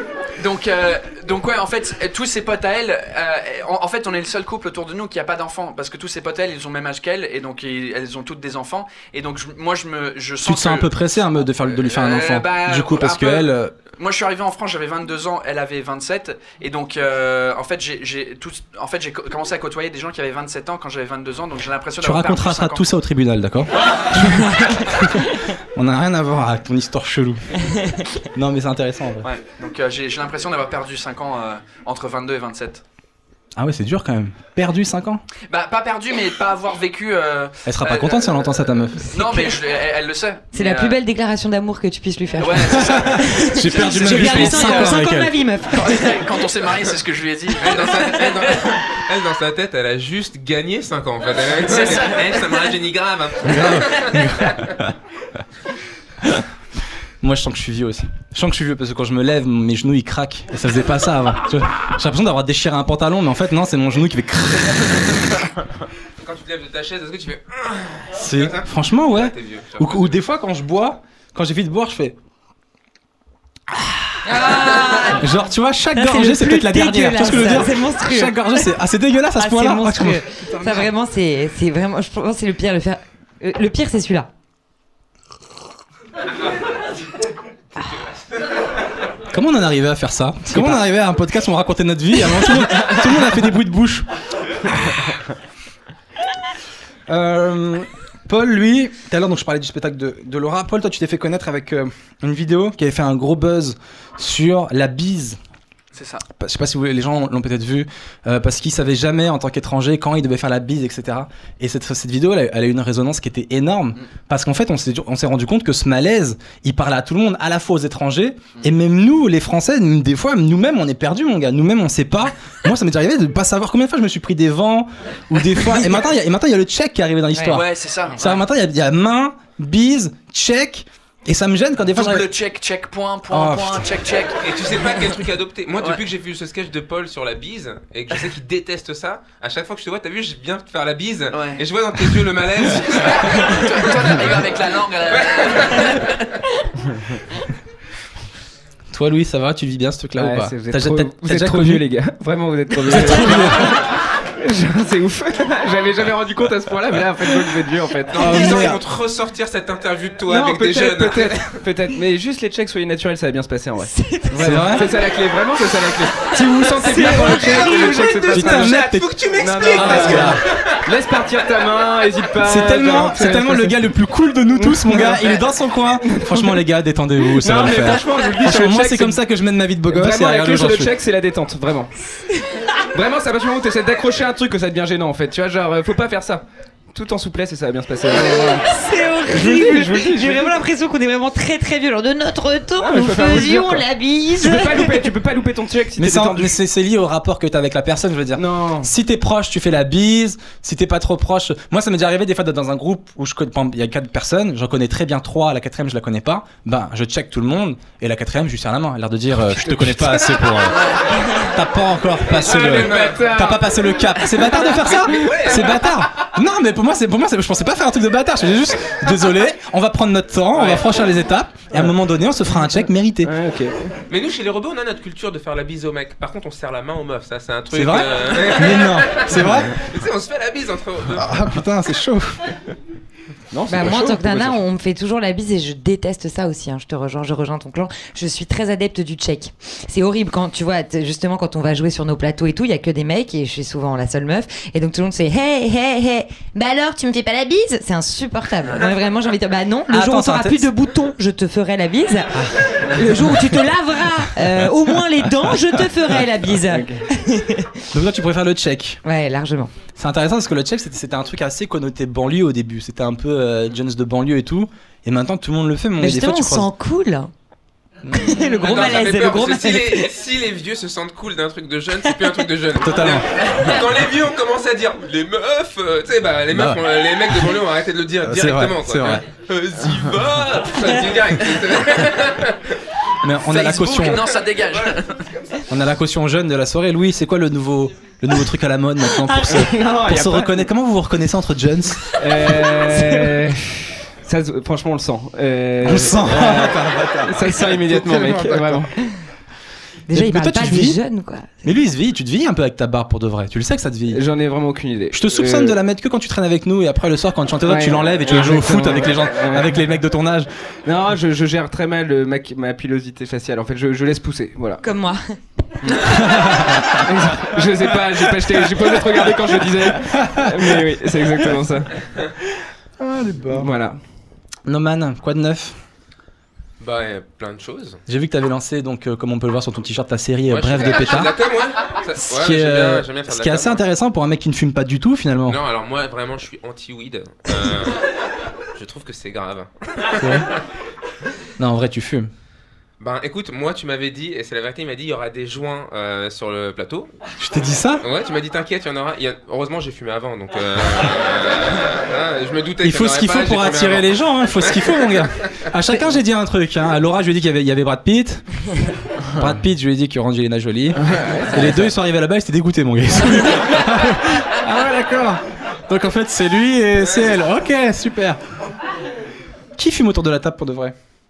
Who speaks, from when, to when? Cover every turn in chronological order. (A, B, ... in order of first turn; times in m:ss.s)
0:00.4-0:10.9 A
0:10.4-0:13.7 B
0:11.6-0:22.8 A
0:22.0-0:29.3 B
0:29.2-0:32.8 A
0:33.6-0:35.2 B
0:35.5-0:41.0 A
0:37.6-0:39.5 B
0:40.5-0:46.2 C
0:42.4-0:45.0 A
0:42.7-0:45.3 B
0:45.7-0:48.5 A
0:47.6-0:54.7 D
0:51.6-0:52.6 A
0:53.4-0:54.9 B
0:57.2-1:05.2 B
1:06.2-1:10.2 D
1:08.1-1:12.1 B
1:13.7-1:14.4 B
1:14.2-1:15.3 C
1:15.1-1:20.2 B
1:15.9-1:18.7 C
1:19.4-1:24.3 C
1:29.3-1:34.1 B
1:37.1-1:45.4 B
1:45.9-1:46.2 A
1:46.3-2:12.2 B
2:07.4-2:08.4 A
2:11.9-2:14.4 A
2:13.3-2:13.8 B
2:14.4-2:24.4 D
2:21.3-2:21.6 A
2:22.7-2:26.2 A
2:25.0-2:26.2 D
2:28.9-2:31.8 B
2:30.2-2:38.7 E
2:32.8-2:33.8 B
2:38.1-2:41.6 D
2:38.2-2:38.8 B
2:40.3-2:48.9 E
2:43.8-2:44.8 C
2:44.4-2:44.9 B
2:46.8-2:47.9 C
2:47.0-2:50.8 D
2:47.0-2:47.5 B
2:48.3-2:49.1 B
2:49.4-2:53.8 E
2:49.7-2:50.4 B
2:52.4-3:00.9 B
2:54.6-2:55.4 E
2:56.0-2:56.6 E
2:57.3-2:59.2 E
2:59.9-3:01.9 E
3:02.8-3:08.7 E
3:08.1-3:15.1 C
3:09.3-3:10.5 E
3:12.8-3:13.8 E
3:14.4-3:16.5 E
3:16.0-3:43.3 B
3:18.3-3:18.9 E
3:30.8-3:31.0 A
3:32.3-3:33.3 D
3:32.4-3:34.5 E
3:34.8-3:36.0 D
3:40.5-3:40.9 D
3:43.2-3:44.0 E
3:44.1-3:51.5 D
3:47.7-3:49.8 B
3:51.1-3:52.5 B
3:53.5-3:54.5 E
3:53.7-4:17.9 C
4:09.9-4:10.6 B
4:16.7-4:17.0 E
4:17.9-4:19.0 B
4:19.0-4:19.7 C
4:20.0-4:26.7 B
4:26.0-4:27.3 C
4:28.0-4:29.0 B
4:28.1-4:30.1 C
4:28.4-4:42.7 D
4:32.8-4:33.4 B
4:36.5-4:36.8 B
4:38.2-4:39.2 B
4:43.2-4:44.2 B
4:43.4-4:45.2 A
4:44.0-4:44.9 D
4:45.7-4:52.0 B
4:49.2-4:50.2 C
4:49.5-4:50.6 E
4:52.2-4:58.9 E
4:52.4-4:53.3 C
4:55.8-4:58.9 B
5:00.1-5:01.7 C
5:00.1-5:01.0 B
5:01.6-5:04.2 B
5:04.1-5:05.8 E
5:05.1-5:10.5 B
5:07.6-5:09.7 E
5:10.8-5:14.8 E
5:14.8-5:15.2 C
5:15.9-5:16.2 C
5:16.1-5:17.1 B
5:17.0-5:22.0 E
5:18.4-5:18.9 B
5:20.1-5:20.9 B
5:23.0-5:23.7 B
5:23.5-5:24.0 E
5:24.6-5:25.8 B
5:26.8-5:28.0 D
5:28.1-5:31.3 B
5:30.5-5:33.8 D
5:32.2-5:35.6 B
5:35.5-5:38.0 D
5:38.7-5:40.6 D
5:40.2-5:40.5 B
5:41.6-5:42.3 B
5:43.0-5:47.1 D
5:47.4-5:48.0 B
5:48.0-5:55.6 D
5:52.8-5:58.6 B
5:59.3-6:08.4 B
6:01.0-6:01.9 E
6:07.0-6:07.4 D
6:09.8-6:10.9 B